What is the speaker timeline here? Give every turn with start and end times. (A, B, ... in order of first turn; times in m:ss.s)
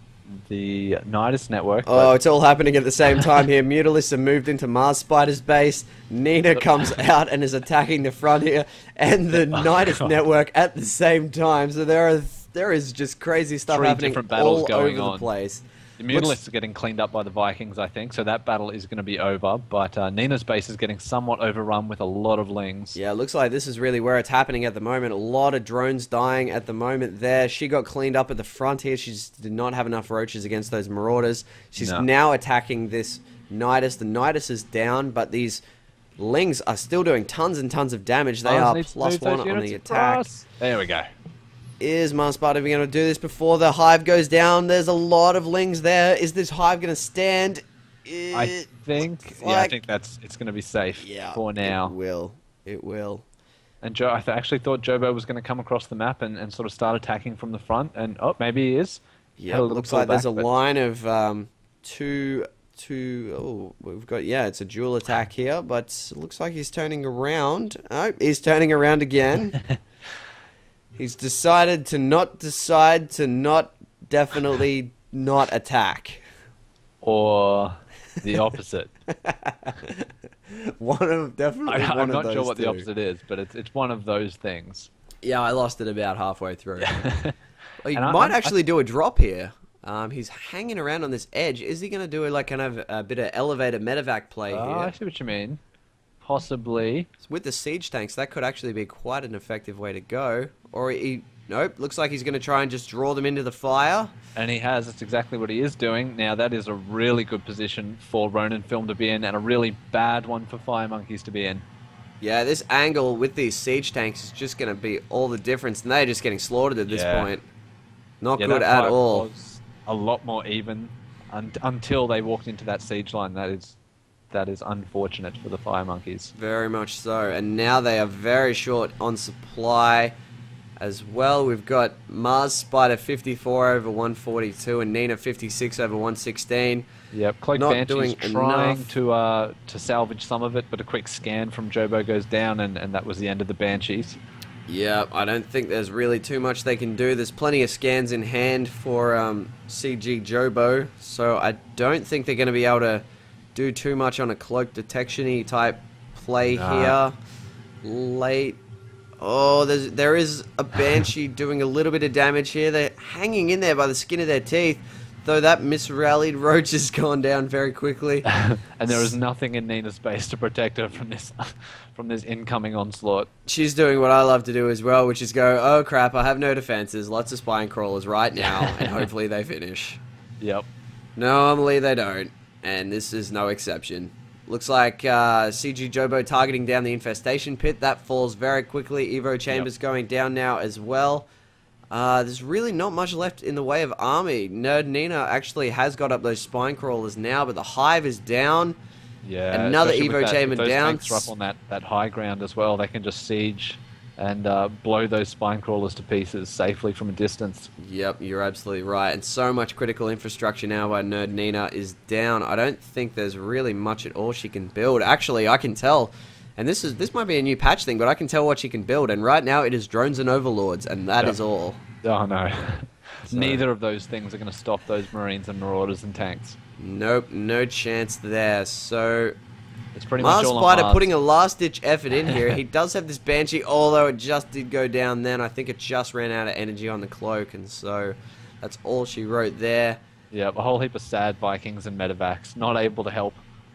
0:00.3-0:02.1 A
0:01.9-0:16.4 B
0:09.5-0:10.2 A
0:13.7-0:15.3 A
0:16.0-0:23.0 A
0:23.0-0:35.6 B
0:31.8-0:32.1 A
0:36.2-0:40.3 B
0:38.4-0:41.1 A
0:41.8-0:49.8 B
0:48.3-0:52.0 A
0:51.0-0:53.2 B
0:53.8-1:00.5 A
0:59.4-1:09.6 B
1:11.0-1:16.2 B
1:17.0-1:18.9 A
1:19.1-1:22.9 B
1:21.7-1:24.9 A
1:25.2-1:27.0 B
1:26.8-1:27.4 A
1:27.8-1:34.9 B
1:27.9-1:28.6 A
1:34.5-1:35.6 A
1:36.2-1:37.1 A
1:37.2-1:44.1 B
1:44.4-1:51.6 A
1:52.2-1:57.4 B
1:56.9-1:57.3 A
1:58.2-1:59.3 B
1:58.4-2:03.8 A
2:04.3-2:06.3 A
2:06.4-2:10.1 B
2:10.8-2:16.9 B
2:17.1-2:24.2 A
2:17.6-2:19.0 B
2:24.7-2:37.2 B
2:36.5-2:37.0 A
2:37.8-2:38.6 B
2:39.2-2:48.3 B
2:48.3-2:53.3 A
2:48.9-2:49.2 B
2:53.5-3:00.0 B
2:58.4-2:59.1 A
3:00.4-3:00.7 A
3:01.2-3:11.3 B
3:11.9-3:18.8 B
3:19.2-3:27.7 A
3:19.5-3:21.3 B
3:27.8-3:41.8 B
3:42.0-3:46.6 A
3:43.3-3:43.6 B
3:46.8-3:49.3 B
3:50.0-3:51.1 A
3:50.2-4:00.0 B
4:00.3-4:03.4 A